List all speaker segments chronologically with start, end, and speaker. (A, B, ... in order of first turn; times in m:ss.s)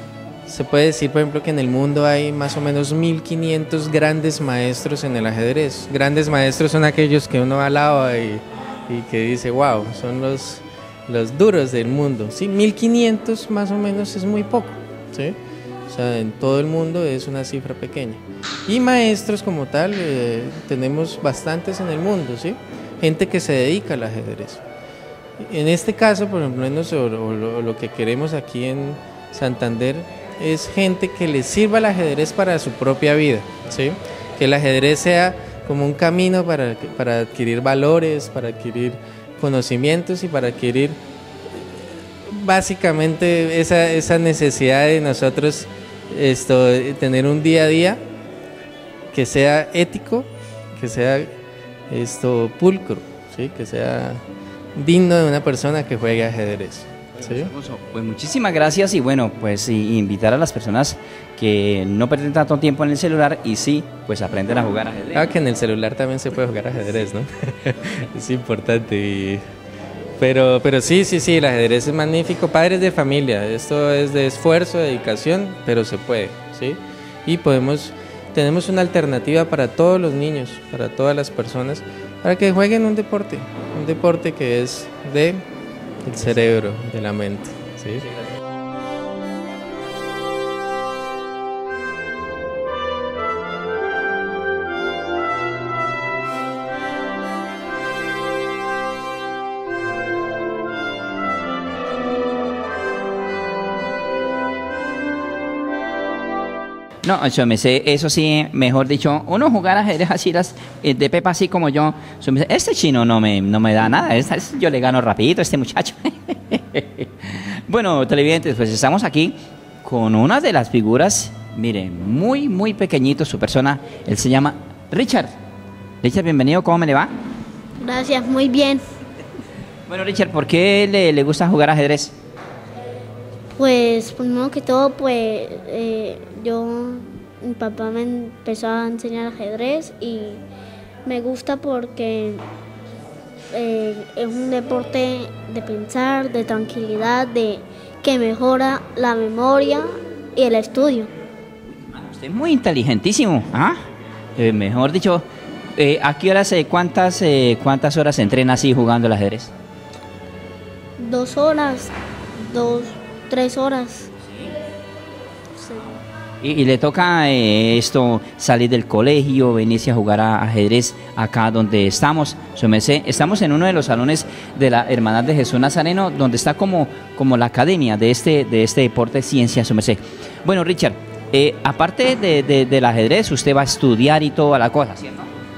0:00.5-0:15.4 A
0:15.9-0:24.6 A
0:25.4-0:41.0 A
0:41.6-0:48.0 A
0:49.1-0:51.3 A
0:51.9-0:54.2 A
0:54.8-0:57.5 A
0:57.2-1:05.3 B
1:05.2-1:09.4 A
1:10.2-1:25.4 A
1:26.0-1:28.0 A
1:47.0-2:05.3 B
2:06.0-2:07.1 B
2:07.8-2:08.8 C
2:09.9-2:12.1 B
2:13.6-2:20.4 C
2:21.1-2:22.4 C
2:23.5-2:31.1 C
2:31.7-2:33.8 B
2:34.4-2:35.2 B
2:35.8-2:39.5 B
2:41.0-2:44.1 C
2:46.4-3:05.3 B